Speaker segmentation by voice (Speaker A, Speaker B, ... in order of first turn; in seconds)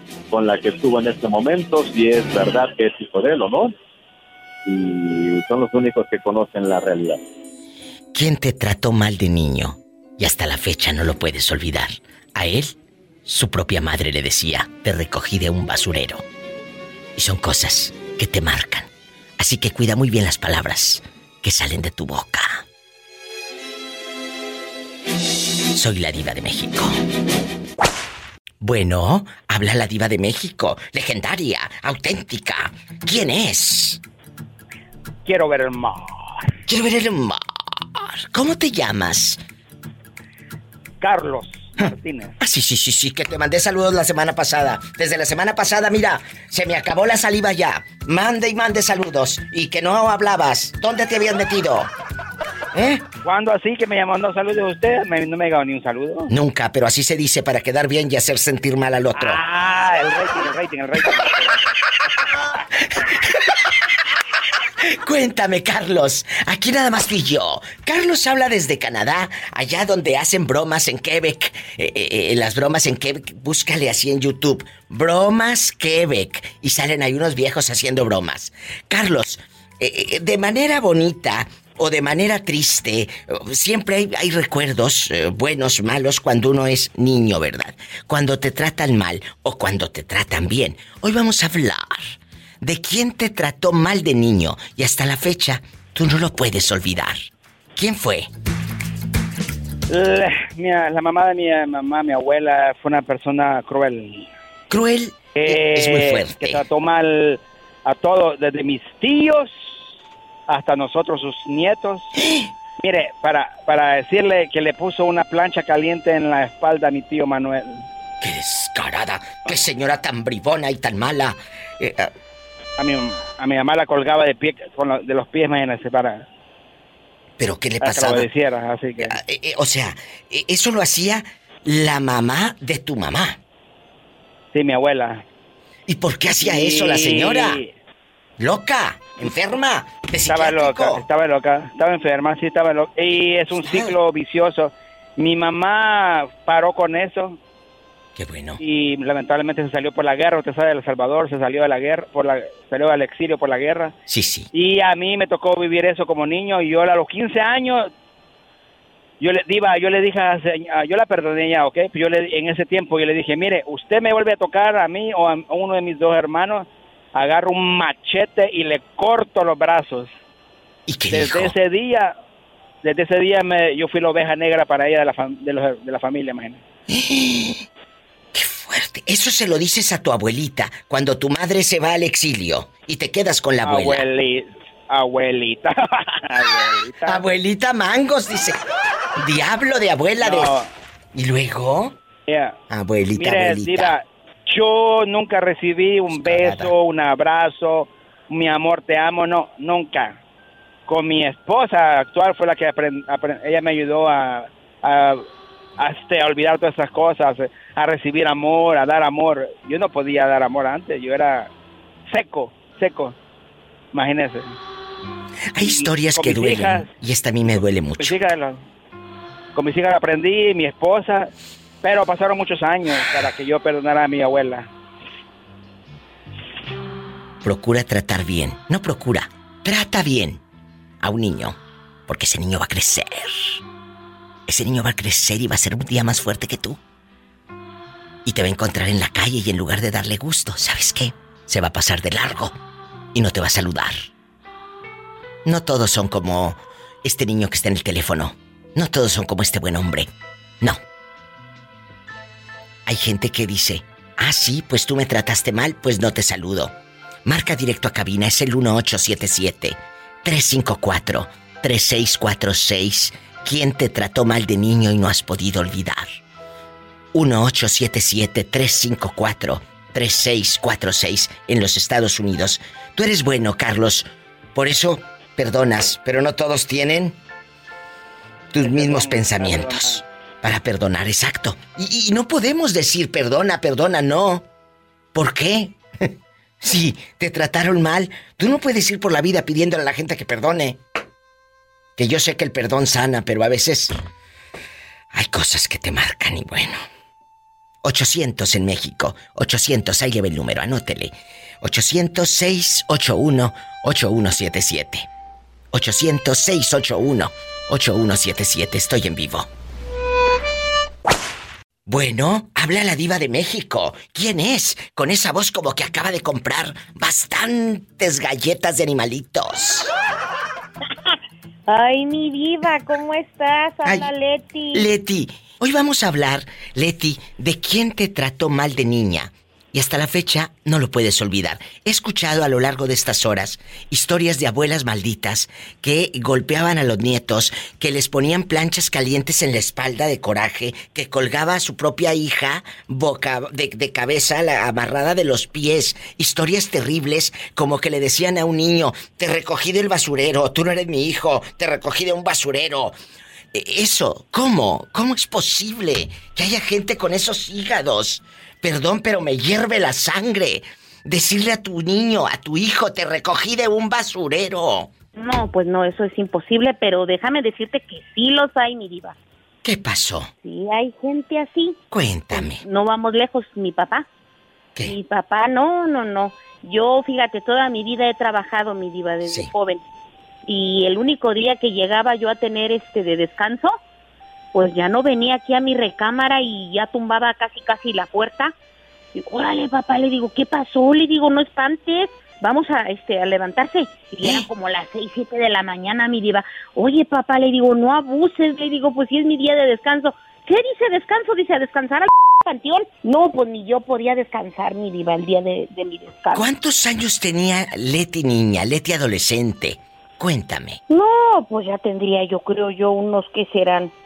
Speaker A: 0.3-3.7, 4.6-7.2
Speaker B: 8.1-12.7, 13.2-16.2, 17.1-18.9, 19.4-22.6, 25.7-27.0, 28.6-34.0, 36.7-39.4, 42.4-51.9, 52.7-53.0, 56.3-59.4, 65.0-98.3, 104.7-106.6, 118.2-122.1, 127.4-128.3, 129.0-133.4, 135.9-137.6, 138.4-141.0, 143.6-144.0, 148.2-148.6, 154.1-154.5, 170.9-171.5, 176.9-177.6, 178.3-184.0, 187.1-188.6, 189.2-190.5, 191.1-191.9, 192.7-194.0, 196.1-196.7, 215.5-218.2, 227.4-230.4, 231.0-233.6, 234.5-236.8, 238.2-242.5, 243.1-244.1, 245.4-250.1, 252.8-256.7, 257.2-266.1, 267.1-277.2, 278.5-284.4, 285.1-286.1, 286.6-290.8, 292.0-293.9, 295.1-296.8, 297.8-305.1, 305.7-309.5, 311.9-319.9, 323.8-324.1, 324.7-352.9, 353.5-364.9, 369.6-370.3, 371.9-372.6, 379.2-379.5, 406.3-410.8
Speaker C: 35.2-36.5, 41.0-42.4, 53.2-56.3, 59.1-61.6, 99.9-104.3, 105.3-109.9, 110.5-112.1, 112.8-117.8, 122.8-126.2, 127.8-129.2, 134.5-135.2, 136.4-137.7, 140.2-147.4, 148.6-153.9, 154.5-157.9, 159.2-170.1, 171.1-172.2, 172.8-176.6, 183.6-187.2, 190.2-190.7, 192.3-192.6, 193.2-200.2, 200.9-205.2, 205.8-211.5, 212.1-213.1, 213.9-214.6, 215.6-216.9, 218.0-218.6, 219.5-221.3, 221.8-224.7, 278.6-280.0
Speaker D: 321.7-324.9, 365.1-369.1, 370.4-371.8, 372.3-374.1, 374.9-379.8, 380.4-383.8, 384.5-388.5, 389.1-406.5, 410.9-413.9